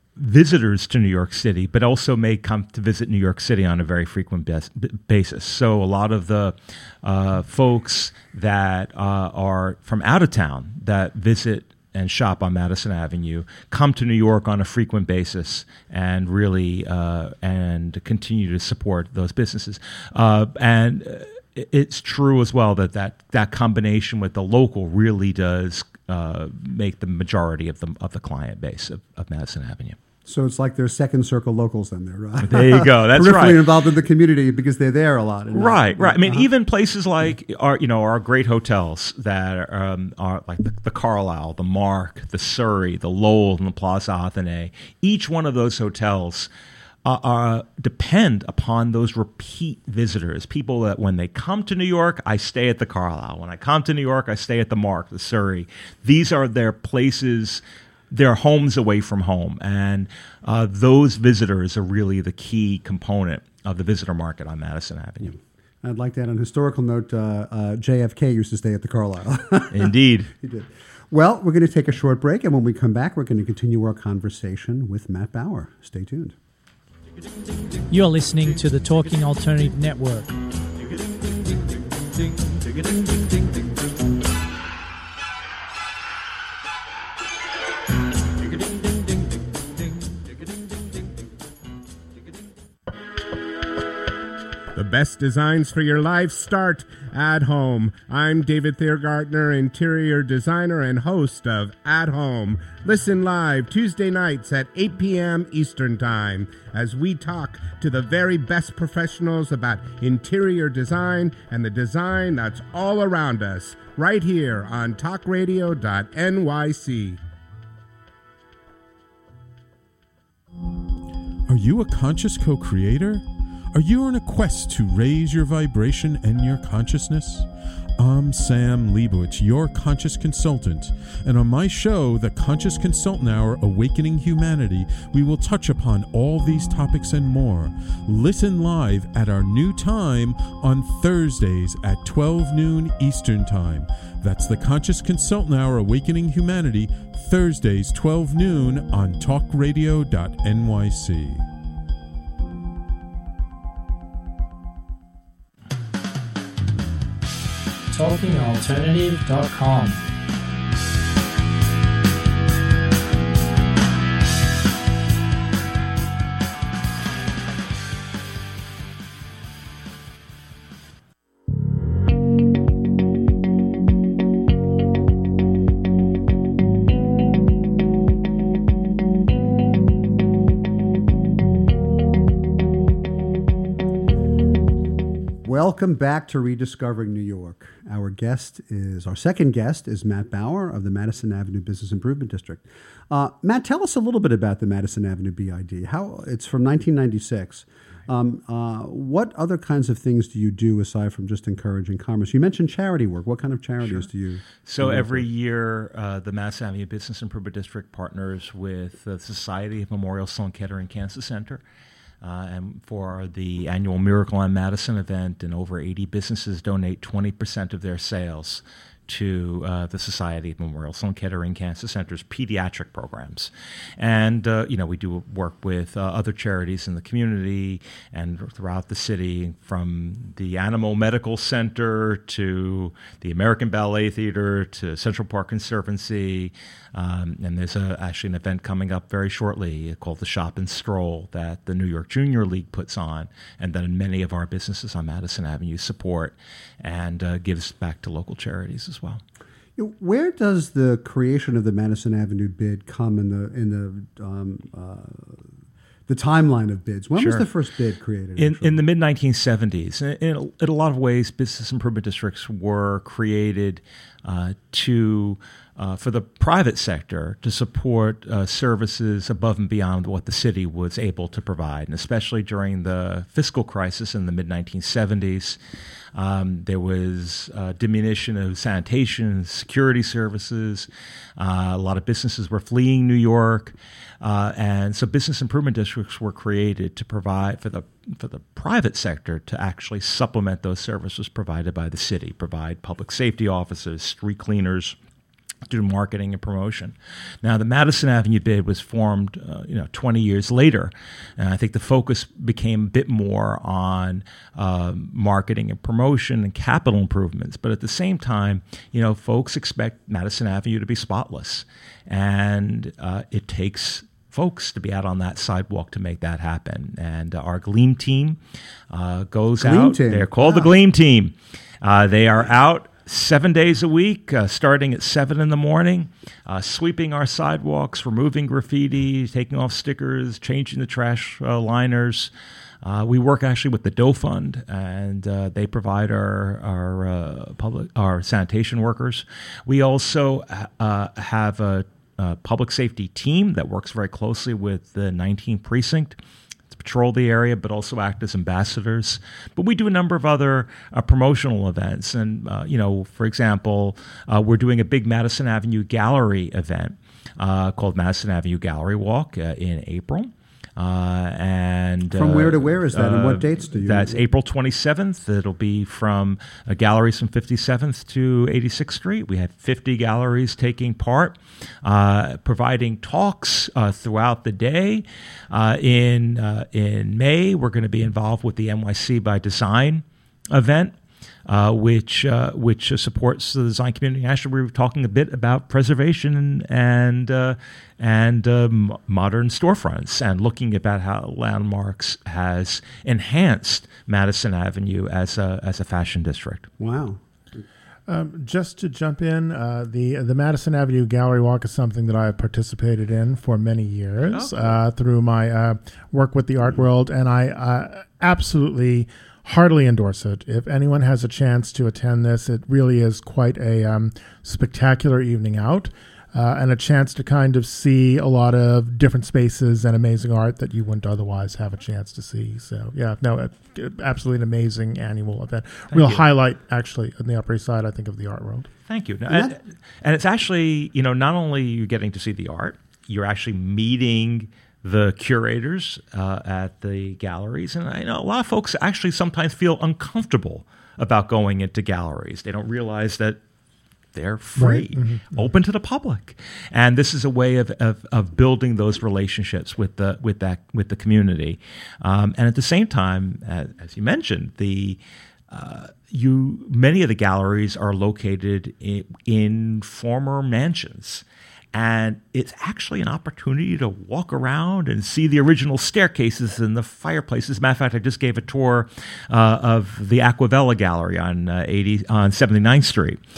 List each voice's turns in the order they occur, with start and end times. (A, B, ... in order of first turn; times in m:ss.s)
0:00.2-0:30.0 A
0:30.2-0:36.5 B
0:32.4-0:33.7 A
0:35.5-0:46.5 A
0:47.0-1:05.4 A
1:05.8-1:16.4 B
1:09.7-1:10.3 A
1:17.9-1:20.4 C
1:34.7-1:57.2 D
2:01.5-2:31.4 E
2:37.9-2:40.0 C
3:05.4-3:25.2 B
3:24.6-3:31.6 A
3:32.2-4:09.2 A
4:09.8-4:15.4 B
4:16.1-4:18.8 B
4:17.2-4:17.5 A
4:18.4-4:35.6 A
4:36.1-4:55.0 A
4:55.7-5:18.4 A
5:18.9-5:32.3 A
5:19.6-5:20.7 B
5:32.8-5:46.2 A
5:46.7-6:36.7 A
6:02.1-6:04.2 B
6:36.8-6:37.2 B
6:38.1-7:08.7 F
6:44.3-6:44.8 A
7:05.9-7:06.2 A
7:08.9-7:23.4 A
7:09.3-7:09.6 B
7:24.1-7:35.0 A
7:24.6-7:25.4 F
7:35.5-7:53.2 A